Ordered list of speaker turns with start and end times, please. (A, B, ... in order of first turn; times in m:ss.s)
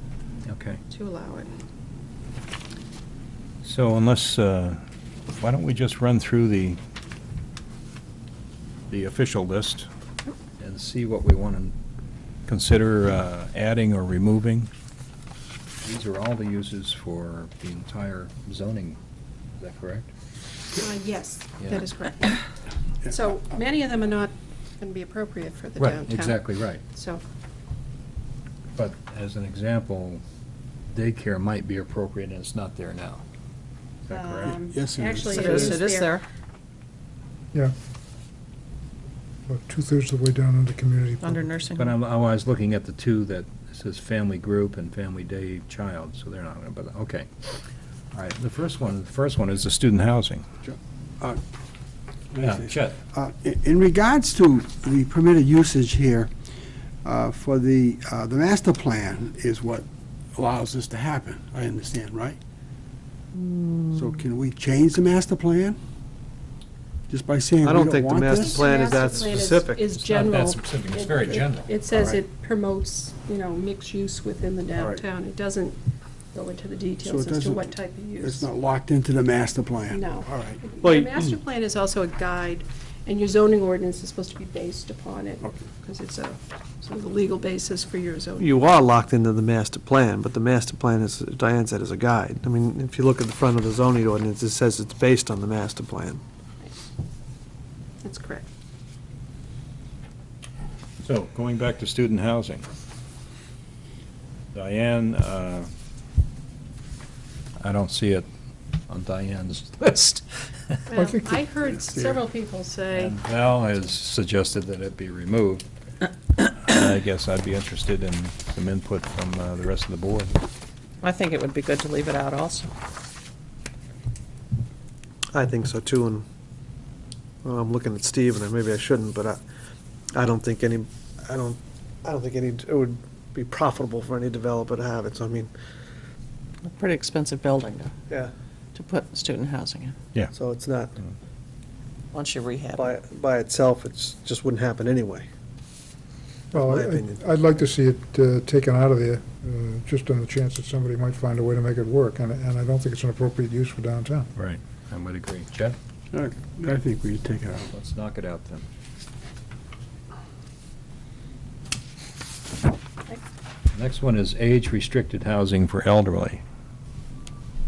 0:00.4-0:00.8 A
0:00.9-0:01.5 B
0:03.6-0:04.8 A
0:05.4-0:06.8 A
0:08.9-0:09.9 A
0:10.6-0:11.7 A
0:12.5-0:14.7 A
0:15.8-0:19.0 A
0:19.6-0:20.1 A
0:20.7-0:22.4 B
0:23.0-0:27.2 B
0:25.8-0:26.8 A
0:28.7-0:30.2 A
0:30.9-0:33.2 A
0:34.1-0:34.6 A
0:34.1-0:36.2 B
0:34.4-0:35.7 C
0:35.3-0:36.2 D
0:39.5-0:41.5 E
0:41.2-0:42.0 D
0:41.8-0:47.6 A
0:48.1-0:50.4 A
0:50.6-0:51.4 C
0:52.3-0:56.3 C
0:52.4-0:53.0 A
0:57.0-1:02.4 C
1:03.4-1:04.0 D
1:03.9-1:05.8 C
1:07.1-1:08.7 C
1:07.6-1:09.8 F
1:08.4-1:15.8 B
1:10.0-1:11.7 A
1:11.9-1:12.2 C
1:14.7-1:15.0 C
1:16.3-1:18.5 B
1:17.0-1:17.7 C
1:18.2-1:20.6 C
1:19.9-1:28.5 B
1:20.8-1:21.1 F
1:28.4-1:36.2 F
1:38.0-1:38.4 B
1:41.0-1:42.6 A
1:44.5-1:45.7 A
1:47.6-1:48.3 A
1:48.9-1:50.8 A
1:50.9-1:53.2 B
1:52.9-1:55.6 A
1:56.4-2:00.4 A
2:01.0-2:02.7 D
2:05.3-2:06.2 F
2:07.4-2:09.4 F
2:10.1-2:15.5 F
2:16.6-2:17.9 D
2:18.7-2:19.9 D
2:20.3-2:21.0 F
2:22.1-2:23.0 D
2:22.7-2:25.3 F
2:26.5-2:27.2 F
2:26.5-2:34.3 E
2:34.4-2:35.8 A
2:36.1-2:37.7 C
2:37.6-2:38.7 A
2:43.7-2:46.4 A